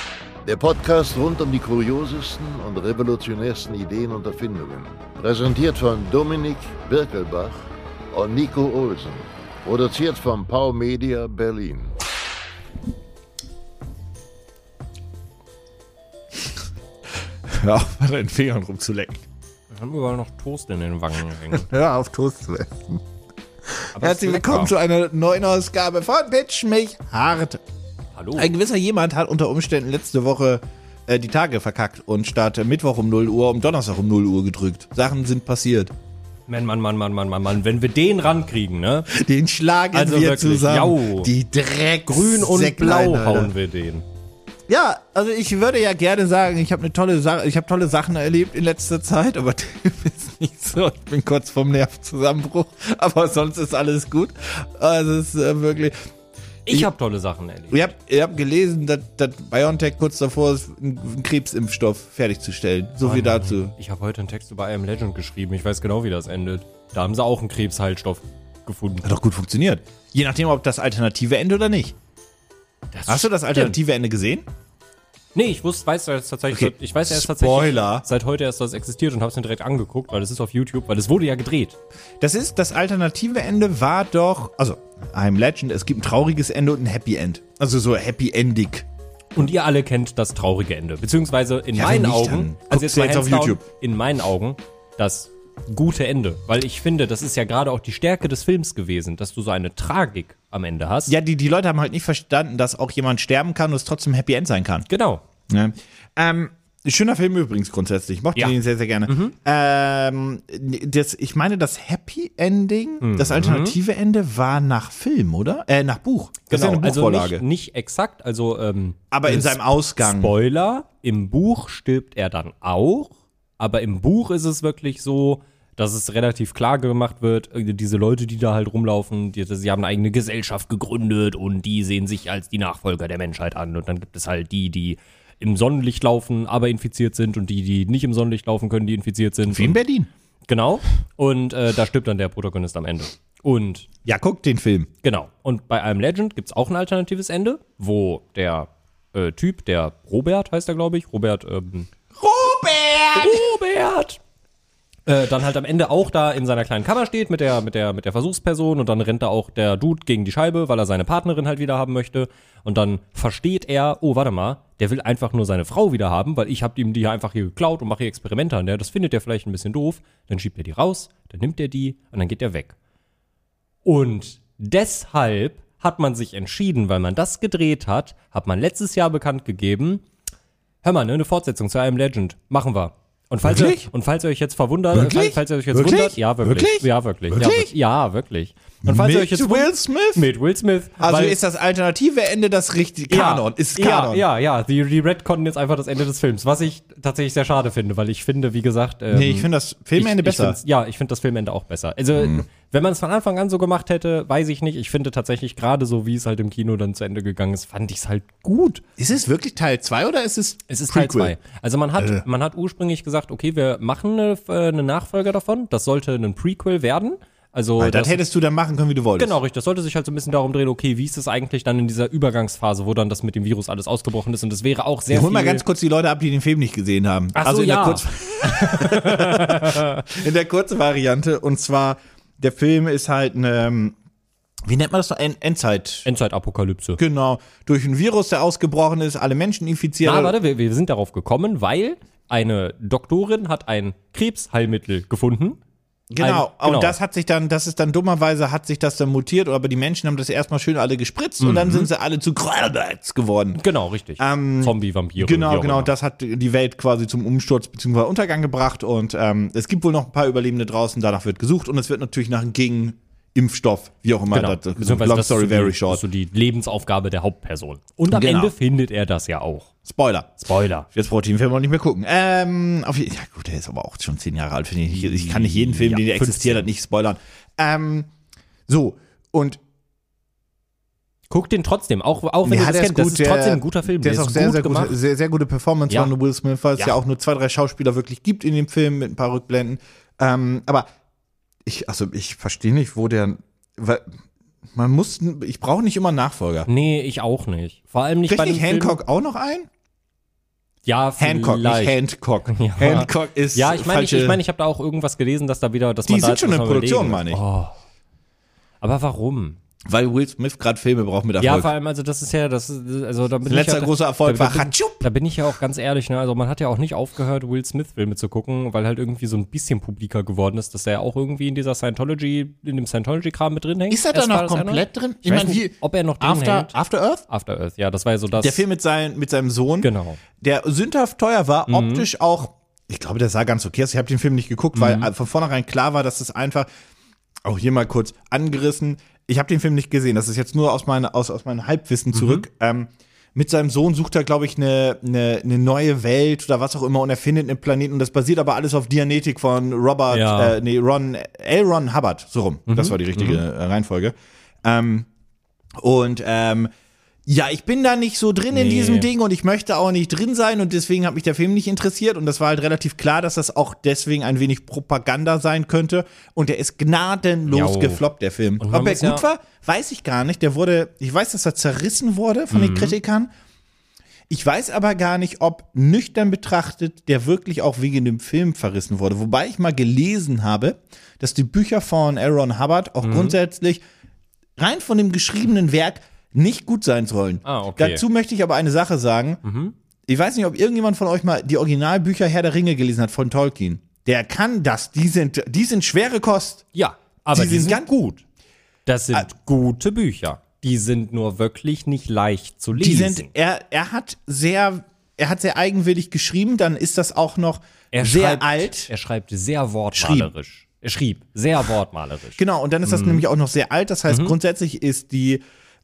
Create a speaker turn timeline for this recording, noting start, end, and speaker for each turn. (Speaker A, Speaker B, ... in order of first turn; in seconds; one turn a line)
Speaker A: 0.5-11.9
Speaker B: 17.5-19.2
Speaker C: 19.7-21.7
Speaker B: 21.5-23.0
Speaker C: 23.9-24.7
Speaker B: 23.9-27.6
Speaker C: 28.2-28.5
Speaker B: 28.4-35.9
Speaker C: 36.5-39.1
Speaker B: 39.1-43.5
Speaker C: 39.9-41.3
Speaker C: 42.1-44.0
Speaker B: 44.7-55.9
Speaker C: 56.7-57.9
Speaker B: 57.7-63.7
Speaker C: 63.0-69.1
Speaker B: 69.0-71.9
Speaker C: 72.9-73.8
Speaker B: 73.1-74.5
Speaker C: 75.3-81.8
Speaker B: 76.5-78.0
Speaker B: 82.2-88.8
Speaker C: 89.3-101.1
Speaker B: 91.7-93.6
Speaker B: 101.1-104.8
Speaker C: 104.9-105.2
Speaker B: 105.5-117.4
Speaker C: 109.1-109.3
Speaker C: 113.0-113.8
Speaker C: 116.5-139.8
Speaker B: 119.1-120.3
Speaker B: 139.5-140.1
Speaker C: 140.5-143.9
Speaker B: 144.1-144.9
Speaker C: 145.0-151.9
Speaker B: 152.2-153.5
Speaker C: 153.2-154.2
Speaker C: 155.1-172.8
Speaker C: 173.8-180.0
Speaker C: 180.8-191.4
Speaker B: 183.4-183.9
Speaker B: 184.9-187.7
Speaker B: 188.8-190.2
Speaker B: 191.0-194.2
Speaker C: 193.1-208.8
Speaker B: 199.1-200.6
Speaker B: 202.2-202.4
Speaker B: 209.0-211.3
Speaker C: 210.7-218.2
Speaker B: 212.0-212.2
Speaker B: 217.8-219.4
Speaker C: 219.2-225.6
Speaker B: 225.1-234.0
Speaker C: 227.3-230.0
Speaker B: 234.7-236.1
Speaker C: 236.1-237.0
Speaker B: 237.0-240.3
Speaker C: 240.0-245.6
Speaker B: 246.1-253.6
Speaker C: 246.2-247.0
Speaker C: 251.4-251.9
Speaker C: 253.6-255.9
Speaker B: 254.2-266.0
Speaker C: 264.3-269.7
Speaker B: 268.1-268.5
Speaker B: 269.9-278.1
Speaker C: 270.4-270.9
Speaker C: 274.9-276.6
Speaker B: 278.7-279.6
Speaker C: 281.3-284.9
Speaker B: 282.4-290.9
Speaker B: 291.6-294.1
Speaker B: 294.7-296.7
Speaker C: 296.7-299.0
Speaker B: 298.3-299.7
Speaker C: 300.9-307.7
Speaker B: 301.2-304.4
Speaker B: 306.1-307.4
Speaker C: 308.8-309.6
Speaker B: 309.9-311.7
Speaker C: 311.4-326.7
Speaker B: 313.5-315.1
Speaker B: 323.9-327.2
Speaker C: 327.3-328.6
Speaker B: 328.4-336.7
Speaker C: 329.8-330.2
Speaker C: 331.7-332.1
Speaker C: 334.8-335.1
Speaker B: 337.4-354.1
Speaker C: 342.1-342.4
Speaker C: 350.1-350.6
Speaker C: 352.7-353.4
Speaker B: 354.6-355.1
Speaker B: 355.8-356.7
Speaker B: 357.2-373.3
Speaker C: 358.5-359.1
Speaker C: 367.5-368.0
Speaker C: 368.6-369.2
Speaker C: 372.5-372.9
Speaker B: 374.3-383.8
Speaker C: 383.0-383.4
Speaker B: 384.6-389.4
Speaker C: 387.4-388.0
Speaker C: 389.4-389.7
Speaker B: 390.1-396.6
Speaker C: 396.7-397.8
Speaker B: 397.3-398.2
Speaker C: 398.9-403.3
Speaker B: 402.8-408.9
Speaker C: 407.9-413.2
Speaker B: 409.9-410.3
Speaker B: 412.4-415.4
Speaker C: 414.1-414.4